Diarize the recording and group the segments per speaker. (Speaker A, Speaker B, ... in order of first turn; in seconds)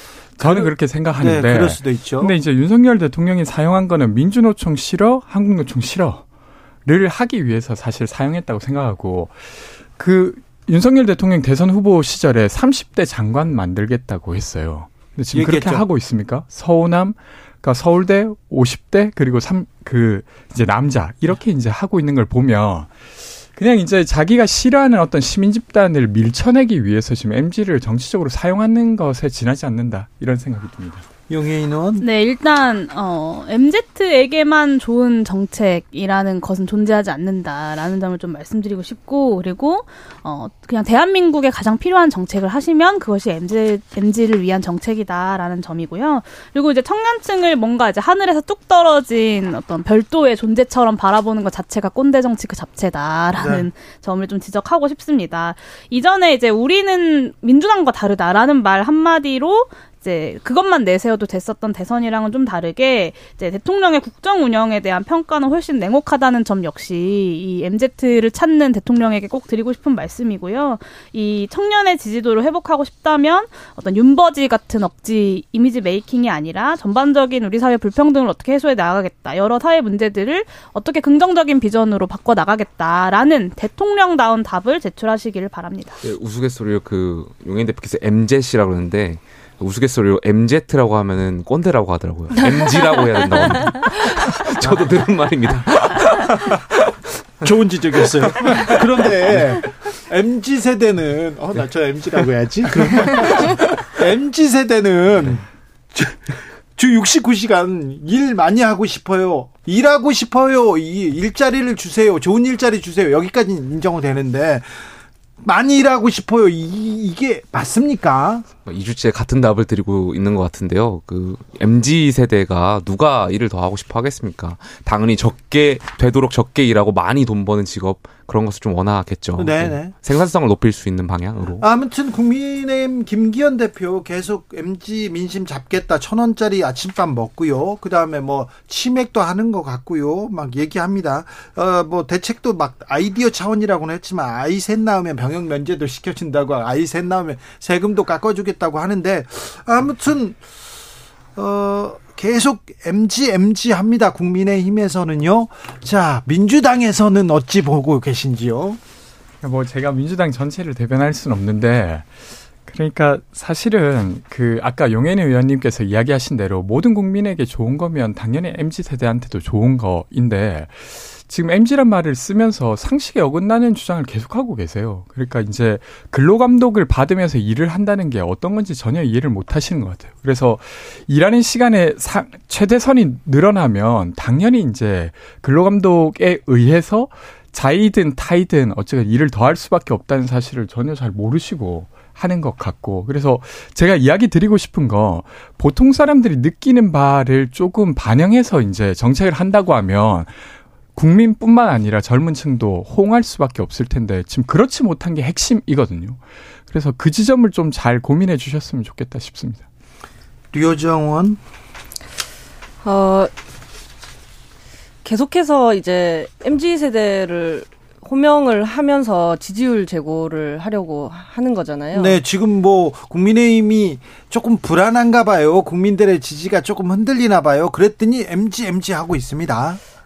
Speaker A: 0.4-6.2, 6.8-31.1, 159.4-162.1, 162.6-200.4, 200.9-209.6
Speaker B: 0.4-2.3, 15.3-15.8, 31.3-32.0, 53.4-53.7, 94.6-94.9, 97.4-114.9, 115.4-118.5, 129.4-129.9, 131.6-150.4, 151.4-158.8, 210.5-211.4, 221.9-229.8
Speaker C: 32.0-86.0
Speaker D: 86.0-96.9, 98.0-99.6, 102.8-103.3, 118.7-131.7
Speaker E: 212.8-213.3, 215.0-222.2